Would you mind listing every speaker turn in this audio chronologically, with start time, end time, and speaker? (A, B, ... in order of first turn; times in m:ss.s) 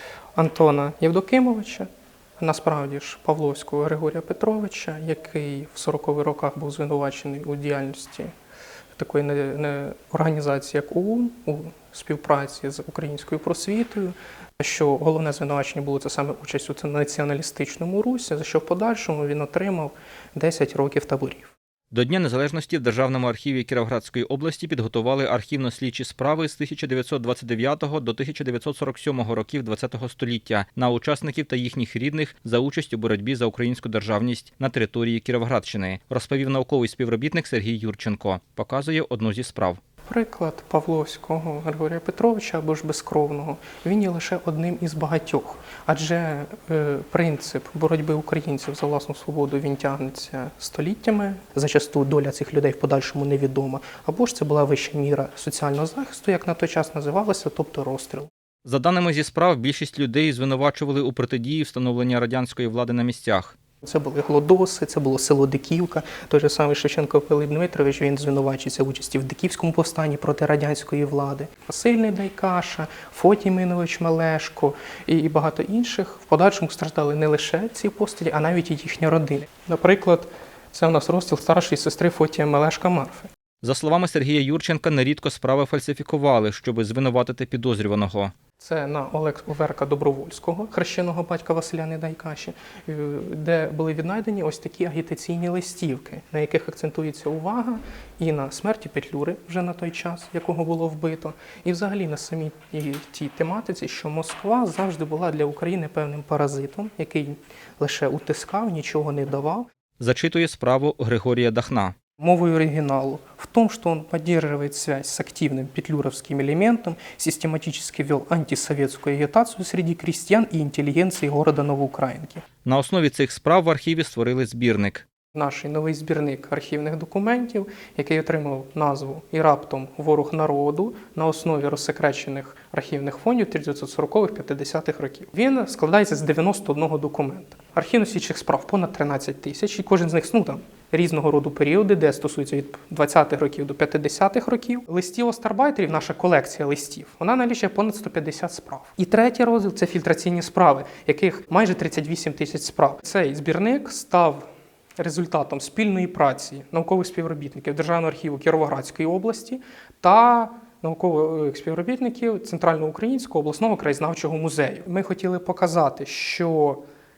0:00.4-0:01.9 A
0:02.4-0:08.3 A
0:08.9-0:21.5 A
0:21.9-0:39.8 B
0:40.1-0:58.3 A
0:58.6-1:03.5 B
1:03.8-1:23.3 A
1:23.6-1:28.3 B
1:28.6-1:49.6 A
1:50.0-1:51.9 B
1:52.2-2:02.4 A
2:02.6-2:05.0 B
2:05.3-2:34.4 A
2:35.0-2:46.8 A